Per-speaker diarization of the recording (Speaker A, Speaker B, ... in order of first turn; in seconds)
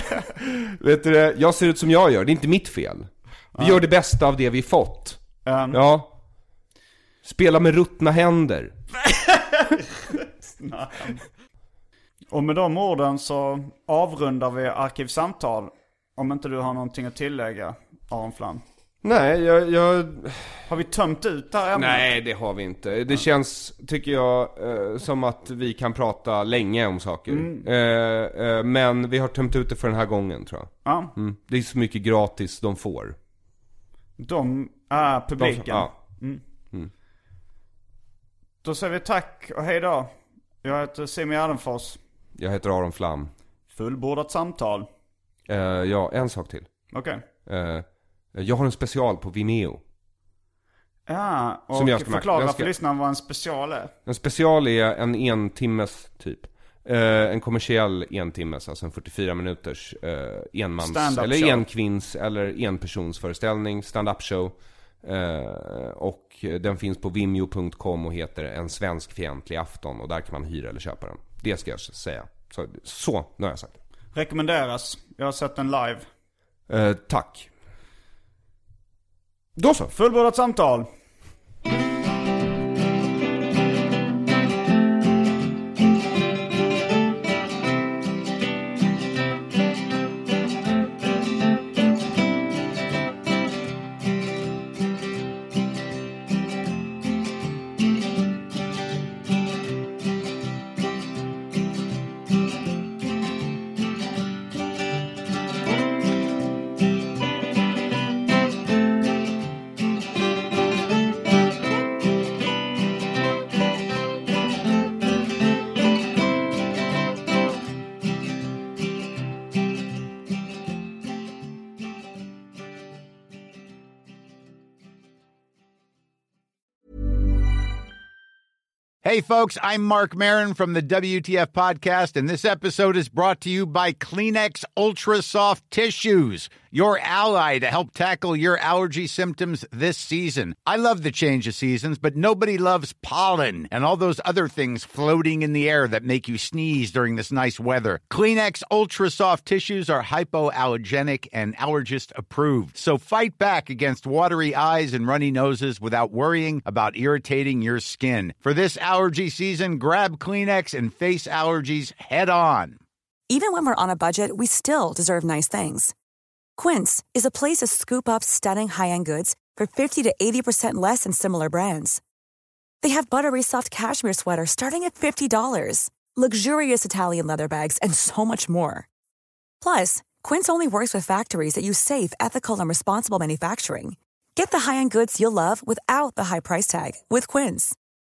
Speaker A: 0.4-6.1, 7.2-8.8, 19.0-20.7, 21.7-33.1, 35.4-35.9, 42.4-43.3, 45.5-46.7, 47.5-49.8, 51.7-52.7, 54.0-73.8, 76.7-77.5, 79.5-79.9
Speaker B: 3.5-3.8, 5.4-5.8, 9.0-11.3, 12.3-18.6, 20.7-22.1, 27.3-27.7, 30.8-31.1, 34.2-36.4, 38.6-42.0, 43.7-44.9, 46.9-47.2, 51.1-53.9, 60.8-61.6, 74.1-76.1, 79.9-80.9
Speaker C: 129.0-162.8
Speaker D: 163.3-165.9, 166.6-172.0, 172.8-178.9, 179.6-187.8